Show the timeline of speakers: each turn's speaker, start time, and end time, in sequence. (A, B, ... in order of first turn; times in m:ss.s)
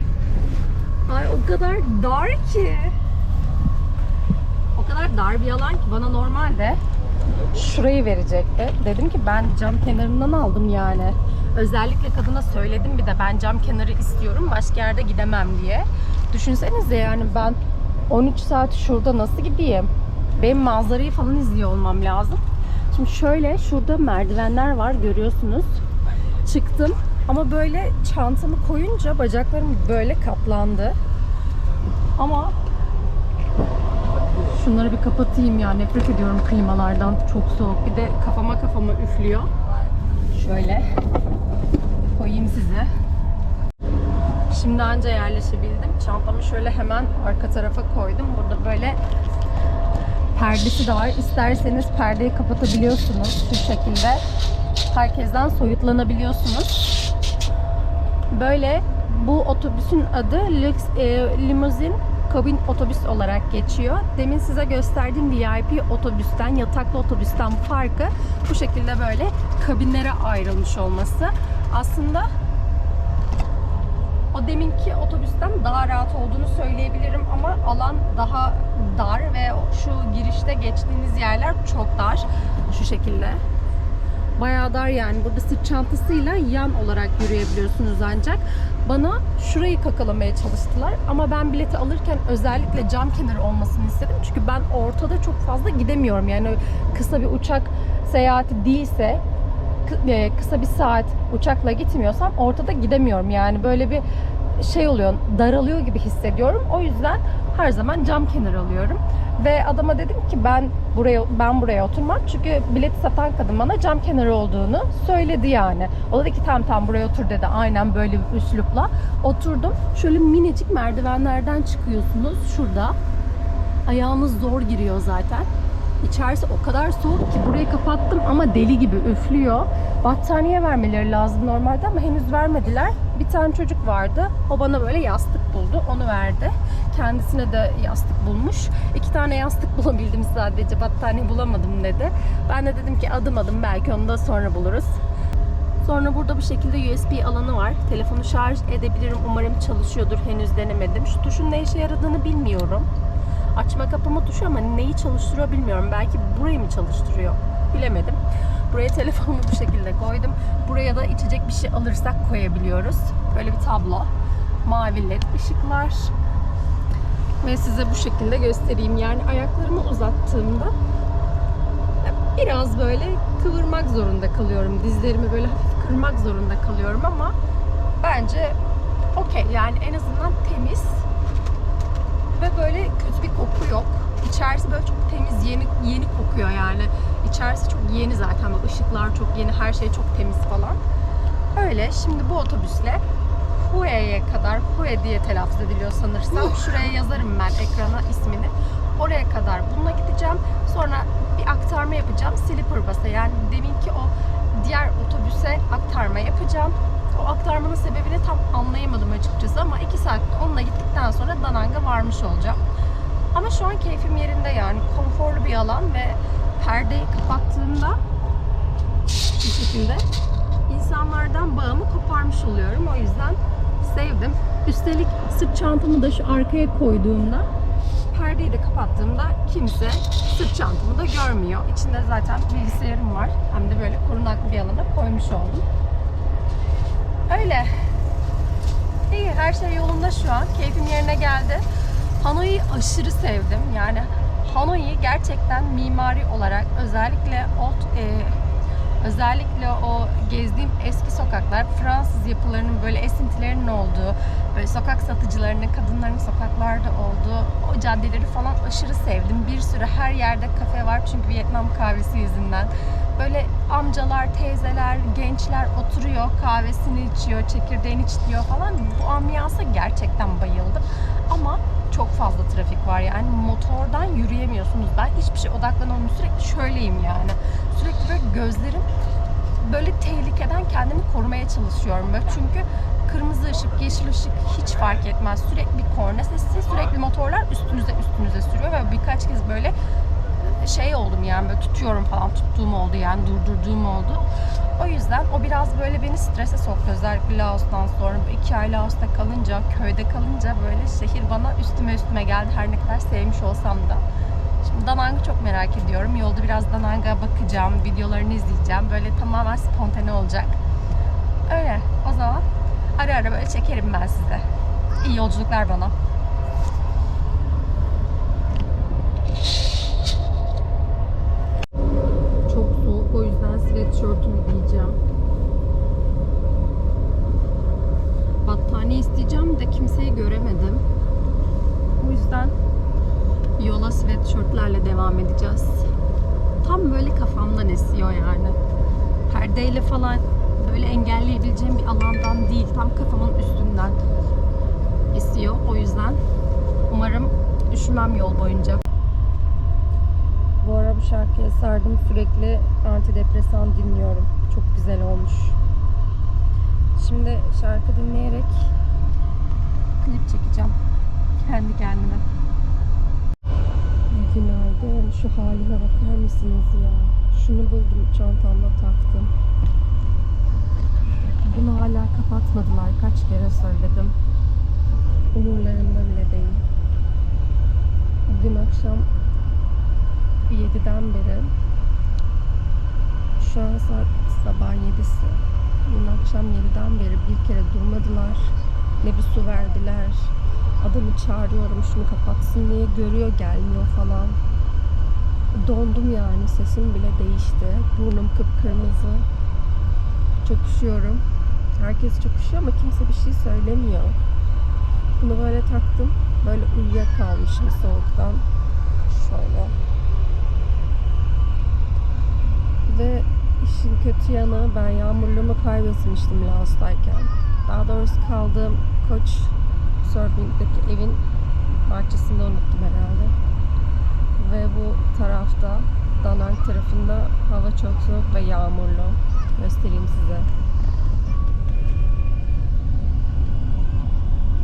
0:01.1-0:02.9 A
0:04.8-0:06.8 A
0:07.5-0:17.6 A
0:18.1-0:25.8 A
0:26.4-0:31.0 A
0:32.2-0:32.5 A
0:34.5-0:39.5 A
0:40.3-0:40.8 A
0:42.1-0:42.9 A
0:44.5-0:49.0 A
0:50.3-0:54.2 A
0:54.9-0:57.0 A
0:58.3-1:12.3 A
1:14.3-1:23.4 A
1:24.4-1:39.2 A
1:39.8-1:44.0 A
1:44.6-2:02.9 A
2:03.9-2:05.5 A
2:06.0-2:25.0 A
2:25.8-2:32.9 A
2:33.6-2:38.2 A
2:38.7-2:44.1 A
2:44.6-2:46.1 A
2:47.4-2:50.7 A
2:52.0-2:57.3 A
2:58.0-2:58.6 A
2:59.1-3:01.0 A
3:02.4-3:10.8 A
3:11.5-3:13.0 A
3:13.5-3:32.6 A
3:33.3-3:38.0 A
3:39.4-3:40.0 A
3:40.7-3:47.5 A
3:48.1-3:55.6 A
3:57.3-3:57.7 A
3:59.1-4:01.6 A
4:02.2-4:08.4 A
4:09.0-4:38.9 A
4:39.6-4:49.7 A
4:50.6-4:54.2 A
4:54.8-5:04.0 A
5:04.6-5:10.6 A
5:11.5-5:12.4 A
5:13.0-5:14.4 A
5:15.0-5:15.9 A
5:22.5-5:25.0 A
5:28.4-5:30.8 A
5:32.0-5:32.6 A
5:33.6-5:35.9 A
5:36.6-5:38.6 A
5:39.3-5:44.0 A
5:45.1-5:46.2 A
5:46.9-5:48.8 A
5:50.6-5:55.6 A
5:57.0-5:58.7 A
6:00.0-6:00.8 A
6:01.4-6:02.2 A
6:04.1-6:09.3 A
6:11.4-6:14.1 A
6:15.3-6:16.6 A
6:18.3-6:19.1 A
6:20.4-6:21.5 A
6:23.4-6:34.4 A
6:35.5-6:39.2 A
6:40.4-6:41.2 A
6:41.7-6:44.2 A
6:45.2-6:48.4 A
6:49.1-6:49.7 A
6:52.9-7:01.2 A
7:01.8-7:03.3 A
7:04.4-7:10.5 A